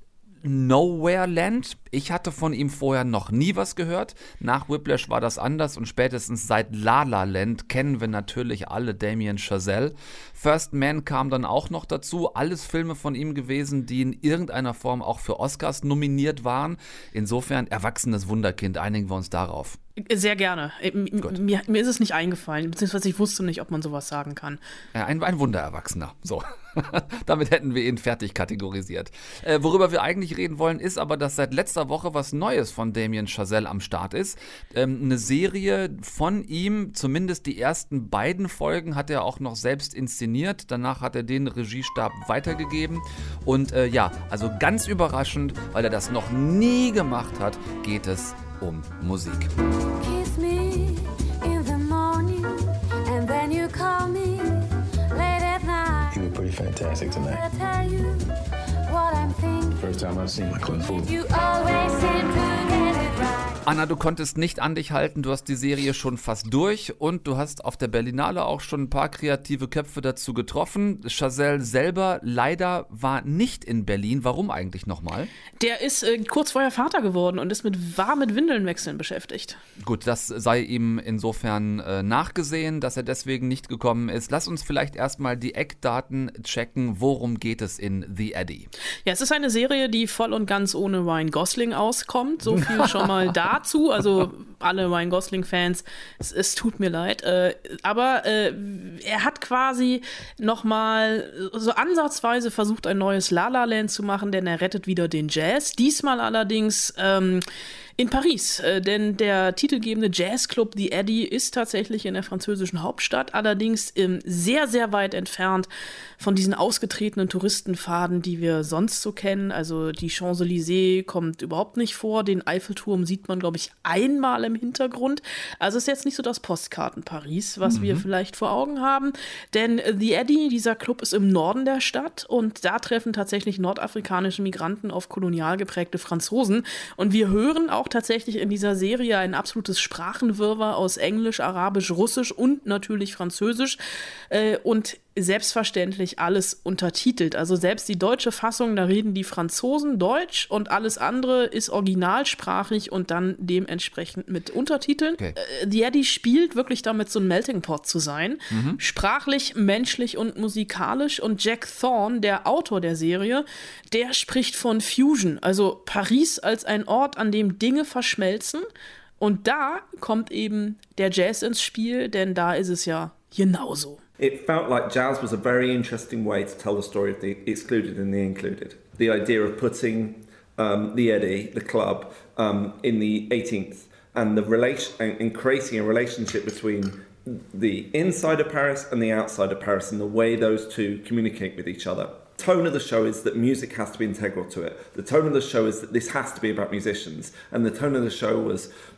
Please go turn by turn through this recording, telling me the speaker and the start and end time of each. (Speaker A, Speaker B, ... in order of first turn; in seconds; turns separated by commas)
Speaker A: 0.4-19.8, Speaker B: 20.0-24.6, Speaker A: 24.9-49.5, Speaker C: 50.0-56.2, Speaker D: 56.1-57.4, Speaker C: 57.3-59.8, Speaker D: 59.7-61.1, Speaker C: 60.9-63.6, Speaker A: 63.6-75.3, Speaker B: 75.6-79.6, Speaker A: 79.8-88.7, Speaker B: 89.0-107.4, Speaker A: 92.7-93.1, Speaker B: 108.0-143.8, Speaker A: 127.7-128.1, Speaker B: 144.3-168.7, Speaker A: 158.5-158.8, Speaker B: 169.2-174.0, Speaker E: 174.2-198.7